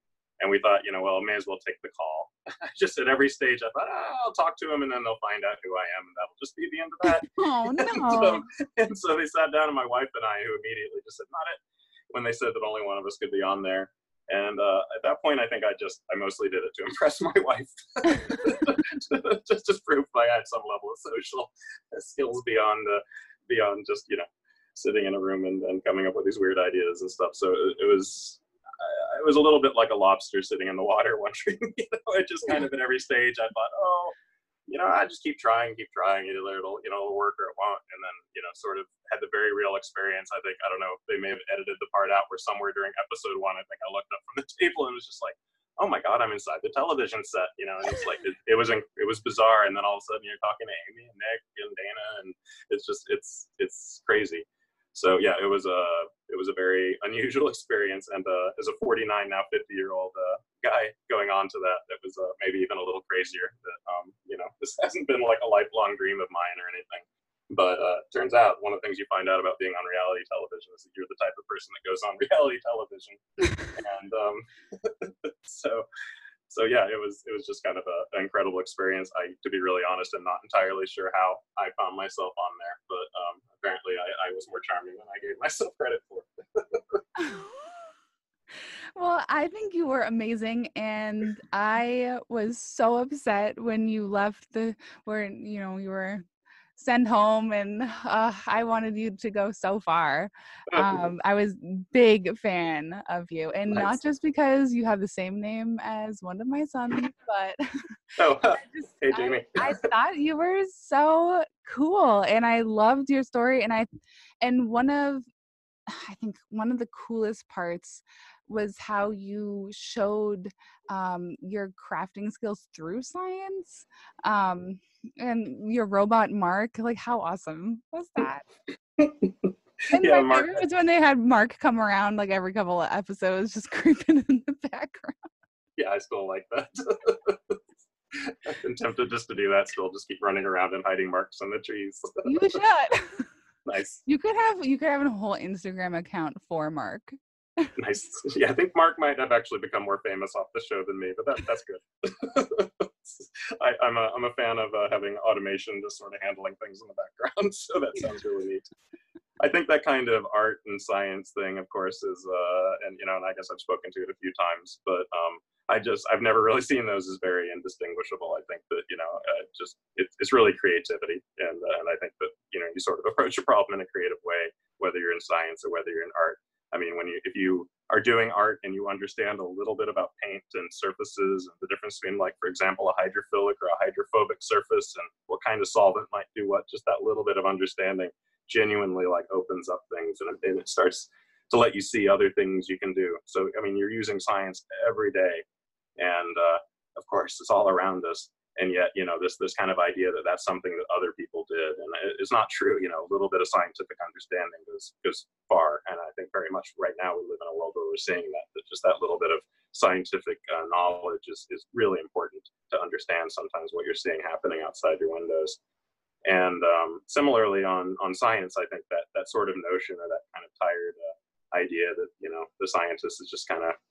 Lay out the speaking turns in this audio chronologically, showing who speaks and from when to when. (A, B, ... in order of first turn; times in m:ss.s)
0:00.4-0:11.6 A
0:07.1-0:08.4 B
0:12.1-0:34.1 A
0:34.7-1:15.8 A
1:16.5-1:27.0 A
1:27.2-1:27.6 B
1:29.0-1:36.2 B
1:36.8-1:47.6 B
1:40.7-1:41.0 A
1:48.2-1:49.8 A
1:48.4-1:53.8 B
1:54.4-1:55.2 B
1:55.9-2:08.4 B
2:09.0-2:10.6 A
2:09.9-2:15.2 B
2:15.8-2:17.6 A
2:18.1-2:22.3 A
2:22.2-2:23.2 B
2:23.6-2:24.0 A
2:24.0-2:27.7 B
2:27.8-2:38.6 A
2:39.4-3:15.4 A
3:16.0-3:35.6 A
3:36.2-3:43.8 A